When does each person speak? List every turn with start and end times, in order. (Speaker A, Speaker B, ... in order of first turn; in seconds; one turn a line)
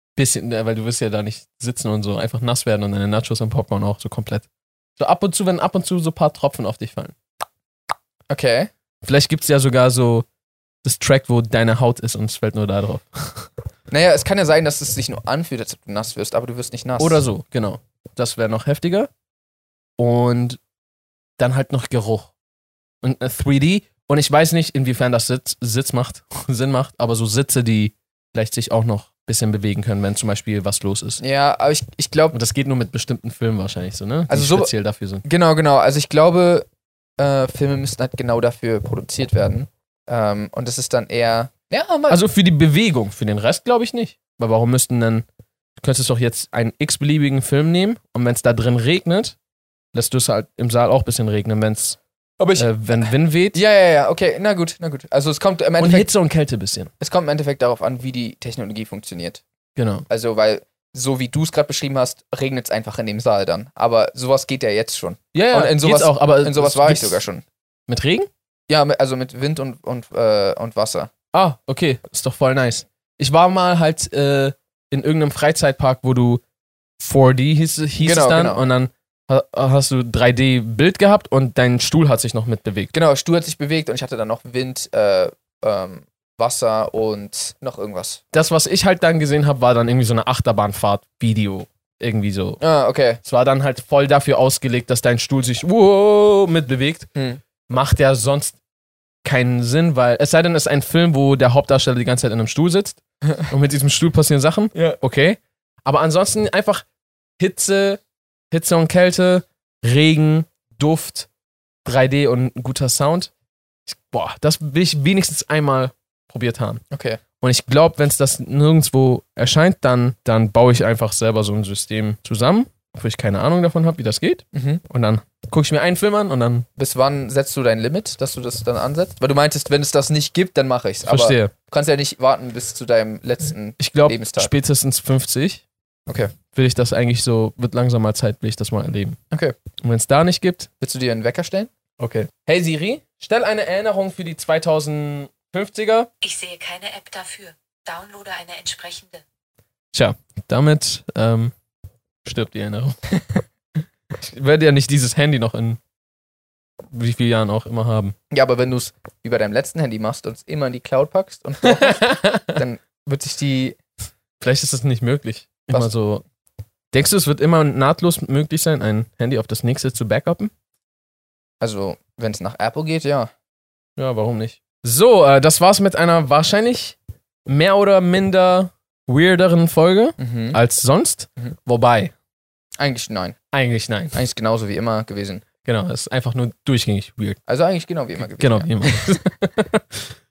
Speaker A: 0.2-4.5
Speaker A: 5.0-7.2
Speaker B: 8.3-8.7
Speaker A: 9.0-10.3
Speaker A: 10.8-13.5
Speaker B: 13.9-17.2
Speaker A: 17.0-19.1
Speaker A: 20.0-20.6
Speaker A: 21.4-22.3
Speaker A: 23.0-31.2
Speaker B: 31.2-32.4
Speaker A: 32.3-35.2
Speaker B: 34.3-34.7
Speaker B: 35.2-36.7
Speaker B: 37.2-42.2
Speaker A: 42.1-45.3
Speaker A: 45.8-49.4
Speaker A: 49.9-52.0
Speaker B: 52.4-52.7
Speaker A: 52.6-53.6
Speaker B: 53.5-56.1
Speaker A: 55.8-56.9
Speaker B: 57.0-59.4
Speaker A: 59.8-60.0
Speaker B: 60.1-67.4
Speaker A: 65.3-67.2
Speaker A: 67.9-68.3
Speaker B: 68.7-71.1
Speaker A: 71.3-76.4
Speaker A: 77.0-82.9
Speaker B: 78.0-78.6
Speaker B: 82.9-88.2
Speaker A: 88.3-92.6
Speaker B: 92.6-93.2
Speaker A: 93.2-97.1
Speaker B: 97.2-97.4
Speaker A: 97.7-98.6
Speaker A: 99.2-106.8
Speaker A: 107.4-111.3
Speaker A: 111.8-113.3
Speaker A: 113.9-116.8
Speaker B: 116.9-117.2
Speaker A: 117.4-126.7
Speaker B: 124.5-124.8
Speaker B: 126.8-134.5
Speaker A: 131.1-131.5
Speaker A: 133.8-135.6
Speaker B: 136.1-136.3
Speaker A: 136.5-139.2
Speaker B: 139.3-139.6
Speaker A: 139.8-140.7
Speaker B: 140.8-141.7
Speaker A: 142.0-146.1
Speaker C: 146.2-149.2
Speaker A: 149.9-151.5
Speaker A: 152.2-153.0
Speaker A: 154.2-155.8
Speaker A: 156.9-158.2
Speaker B: 158.3-163.8
Speaker A: 161.7-162.6
Speaker A: 164.4-166.2
Speaker A: 166.9-170.5
Speaker B: 171.6-173.3
Speaker A: 174.0-182.1
Speaker B: 180.2-180.6
Speaker B: 182.8-183.4
Speaker A: 183.5-184.2
Speaker B: 184.1-185.4
Speaker A: 185.6-187.4
Speaker B: 187.5-189.2
Speaker A: 188.4-190.1